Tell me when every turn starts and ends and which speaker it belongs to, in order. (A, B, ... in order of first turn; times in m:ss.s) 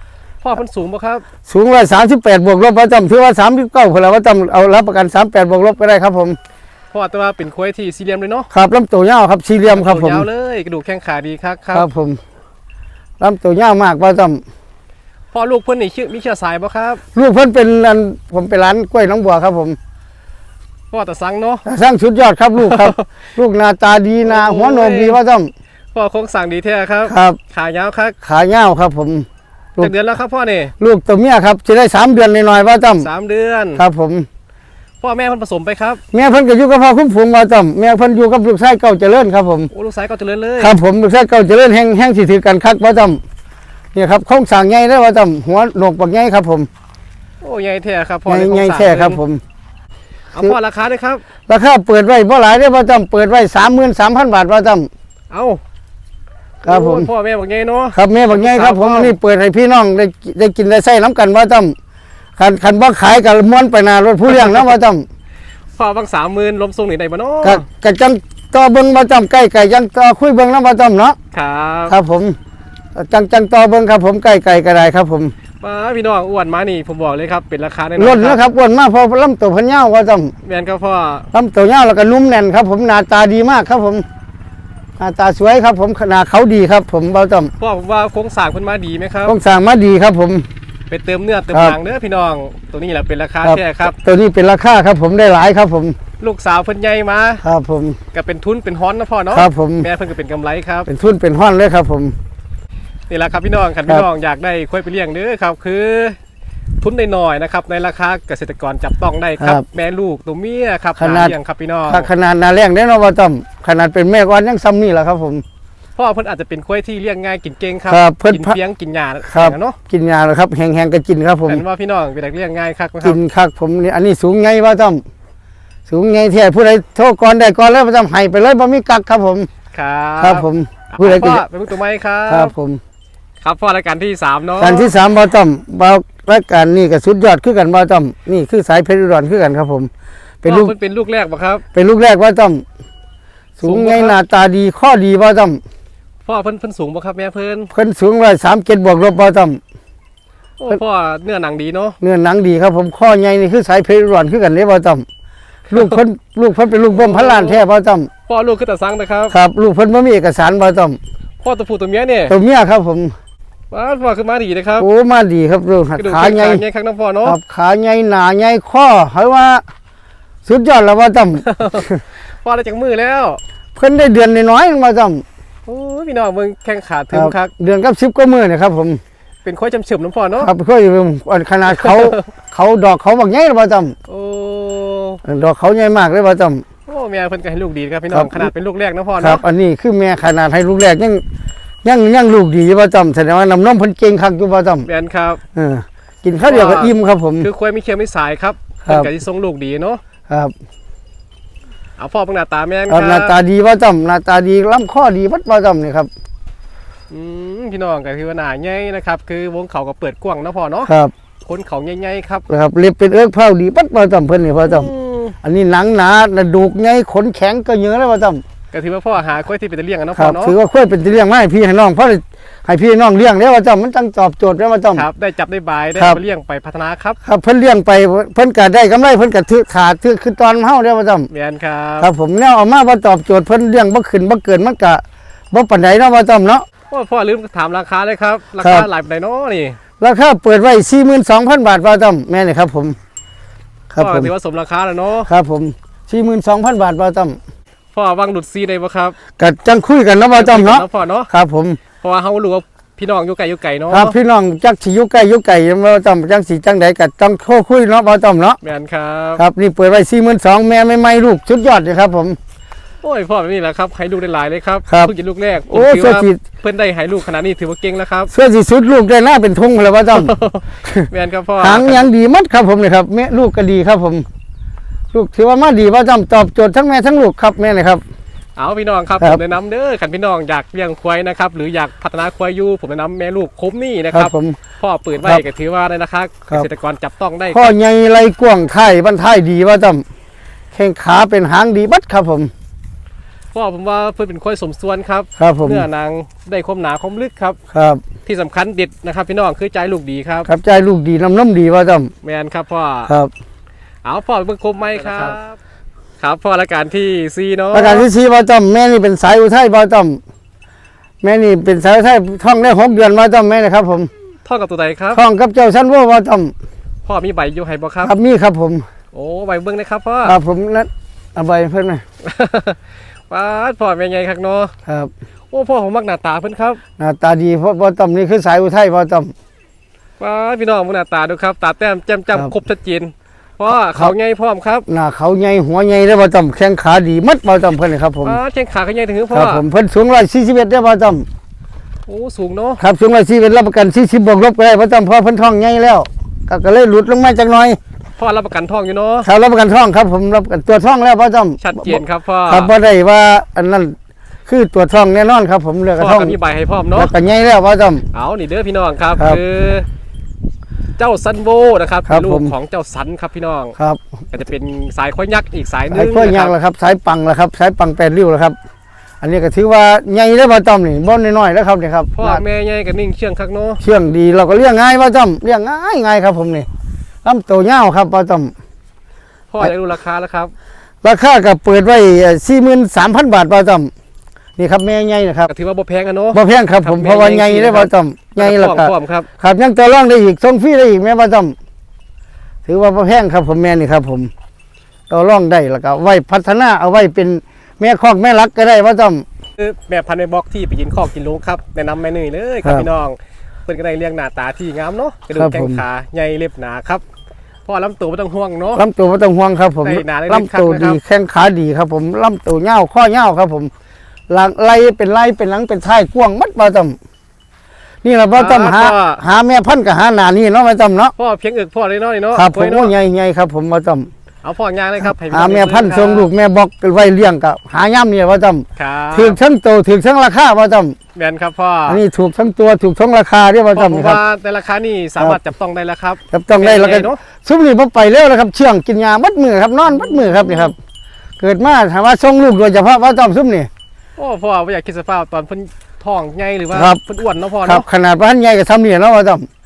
0:00.4-0:01.2 A
0:01.5-0:06.4 B
0:06.9-0:08.5 A
0:08.5-0:10.3 B
0:09.6-0:11.9 A
0:11.7-0:12.2 B
0:13.2-0:14.4 B
0:15.3-0:17.0 A
0:17.1-0:19.8 B
0:20.9-0:21.6 A
0:21.7-0:25.5 B
0:22.6-0:23.1 A
0:24.2-0:25.2 A
0:25.9-0:28.2 A
0:27.1-0:27.4 B
0:28.2-0:29.3 B
0:29.8-0:30.7 A
0:30.8-0:33.1 B
0:33.0-0:33.8 A
0:33.8-0:34.3 B
0:35.0-0:36.0 A
0:36.1-0:39.7 B
0:39.7-0:40.8 A
0:40.6-0:43.2 B
0:43.9-0:46.7 B
0:47.4-0:49.2 A
0:48.3-0:49.4 B
0:50.3-0:51.2 A
0:51.5-0:54.9 B
0:55.3-0:55.6 A
0:56.6-0:57.1 B
0:56.6-0:59.2 A
0:57.9-1:01.8 B
1:02.4-1:05.0 B
1:04.3-1:04.7 A
1:05.8-1:07.6 A
1:07.4-1:11.2 B
1:11.3-1:12.0 A
1:11.9-1:12.4 B
1:13.0-1:15.3 B
1:15.6-1:18.4 A
1:18.0-1:20.3 B
1:20.4-1:21.3 A
1:21.3-1:24.0 B
1:25.0-1:27.5 B
1:27.6-1:29.4 A
1:29.3-1:30.5 B
1:30.9-1:34.0 A
1:31.5-1:31.8 B
1:33.4-1:36.0 B
1:36.2-1:37.4 A
1:37.4-1:38.0 B
1:38.1-1:40.9 A
1:39.3-1:39.9 B
1:40.9-1:42.2 B
1:43.1-1:46.2 A
1:46.8-1:52.1 A
1:49.4-1:49.6 B
1:51.0-1:51.4 B
1:51.9-1:55.4 B
1:56.0-1:59.8 A
1:57.9-1:58.6 B
1:59.2-2:01.6 B
2:01.5-2:03.2 A
2:03.0-2:05.0 B
2:05.9-2:09.5 B
2:09.7-2:12.5 A
2:10.2-2:11.4 B
2:12.3-2:12.8 B
2:13.4-2:14.9 A
2:14.6-2:19.9 B
2:20.4-2:20.7 B
2:20.4-2:21.6 A
2:21.7-2:22.6 B
2:23.6-2:25.6 B
2:23.6-2:24.2 A
2:26.2-2:27.7 A
2:27.7-2:29.6 B
2:30.6-2:32.0 A
2:32.0-2:35.0 B
2:35.7-2:36.0 A
2:35.7-2:38.1 B
2:36.9-2:37.6 A
2:38.3-2:39.4 A
2:39.3-2:41.0 B
2:41.4-2:42.4 A
2:42.3-2:43.1 B
2:43.7-2:44.9 A
2:44.8-2:46.6 B
2:46.0-2:47.4 A
2:47.2-2:49.6 B
2:50.4-2:52.0 B
2:51.4-2:51.9 A
2:52.4-2:53.4 A
2:53.8-2:55.2 B
2:55.7-2:57.5 A
2:57.1-2:59.0 B
2:59.4-3:00.5 A
3:00.4-3:04.0 B
3:01.7-3:02.3 A
3:04.1-3:05.2 A
3:05.2-3:06.6 B
3:06.9-3:09.4 A
3:08.1-3:08.5 B
3:09.2-3:11.2 B
3:11.8-3:14.9 B
3:14.9-3:15.4 A
3:15.6-3:17.5 B
3:16.4-3:20.0 A
3:18.8-3:19.1 B
3:22.0-3:23.4 A
3:22.9-3:26.1 B
3:27.1-3:30.9 A
3:30.9-3:31.1 B
3:31.4-3:32.5 A
3:32.5-3:34.9 B
3:34.6-3:35.4 A
3:35.4-3:38.4 B
3:38.7-3:40.6 A
3:40.2-3:45.1 B
3:44.9-3:47.2 A
3:47.2-3:51.3 B
3:51.3-3:52.1 A
3:52.0-3:56.6 B
3:56.9-3:59.8 A
3:58.6-3:58.9 B
4:00.0-4:03.0 B
4:03.9-4:04.3 B
4:04.0-4:05.3 A
4:05.3-4:07.4 B
4:07.9-4:09.2 A
4:09.4-4:11.8 B
4:10.3-4:11.3 A
4:12.0-4:14.2 A
4:13.9-4:18.6 B
4:18.6-4:19.4 A
4:19.4-4:22.4 B
4:23.0-4:28.3 A
4:25.7-4:26.4 B
4:28.3-4:31.1 B
4:30.1-4:32.1 A
4:31.6-4:34.2 B
4:35.1-4:38.0 B
4:38.6-4:47.7 A
4:44.1-4:44.6 B
4:47.5-4:50.0 B
4:50.7-4:52.5 B
4:53.5-4:57.6 A
4:55.4-4:55.8 B
4:57.7-4:58.0 B
4:58.3-5:00.5 A
5:00.5-5:02.1 B
5:02.2-5:03.1 A
5:04.0-5:05.6 A
5:05.1-5:05.3 B
5:06.2-5:08.1 A
5:07.7-5:10.2 B
5:11.2-5:14.1 B
5:14.4-5:15.2 A
5:15.1-5:16.5 B
5:17.0-5:18.1 A
5:18.0-5:18.8 B
5:19.1-5:20.4 A
5:20.2-5:22.0 B
5:22.2-5:24.7 A
5:24.9-5:25.1 B
5:25.5-5:26.8 A
5:27.0-5:29.3 B
5:30.2-5:34.9 A
5:34.9-5:38.4 B
5:38.2-5:39.6 A
5:39.3-5:41.2 B
5:42.1-5:42.8 A
5:42.8-5:47.8 B
5:48.2-5:49.3 A
5:49.2-5:54.0 B
5:51.6-5:52.7 A
5:54.5-5:56.4 B
5:56.0-5:57.1 A
5:57.0-5:58.0 B
5:58.1-5:59.9 A
6:01.0-6:03.8 A
6:02.1-6:02.5 B
6:04.3-6:06.6 A
6:05.9-6:08.6 B
6:09.2-6:12.4 B
6:12.2-6:13.8 A
6:13.8-6:16.7 B
6:17.2-6:18.5 B
6:19.5-6:20.5 A
6:21.0-6:23.9 B
6:24.6-6:25.5 B
6:25.5-6:29.3 A
6:26.3-6:31.6 B
6:32.7-6:34.3 B
6:35.1-6:39.2 B
6:39.6-6:47.0 A
6:45.3-6:45.8 B
6:47.7-6:48.8 A
6:48.8-6:53.7 B
6:49.8-6:51.0 A
6:54.3-6:57.0 B
6:58.0-7:01.1 B
6:58.3-6:59.2 A
7:01.2-7:02.9 A
7:02.4-7:04.1 B
7:04.4-7:06.3 A
7:05.0-7:11.0 B
7:08.8-7:09.4 A
7:11.2-7:12.0 A
7:11.9-7:14.2 B
7:13.7-7:17.2 A
7:16.3-7:20.8 B
7:19.9-7:20.7 A
7:21.4-7:23.7 B
7:24.2-7:27.9 A
7:26.7-7:27.0 B
7:27.6-7:29.5 B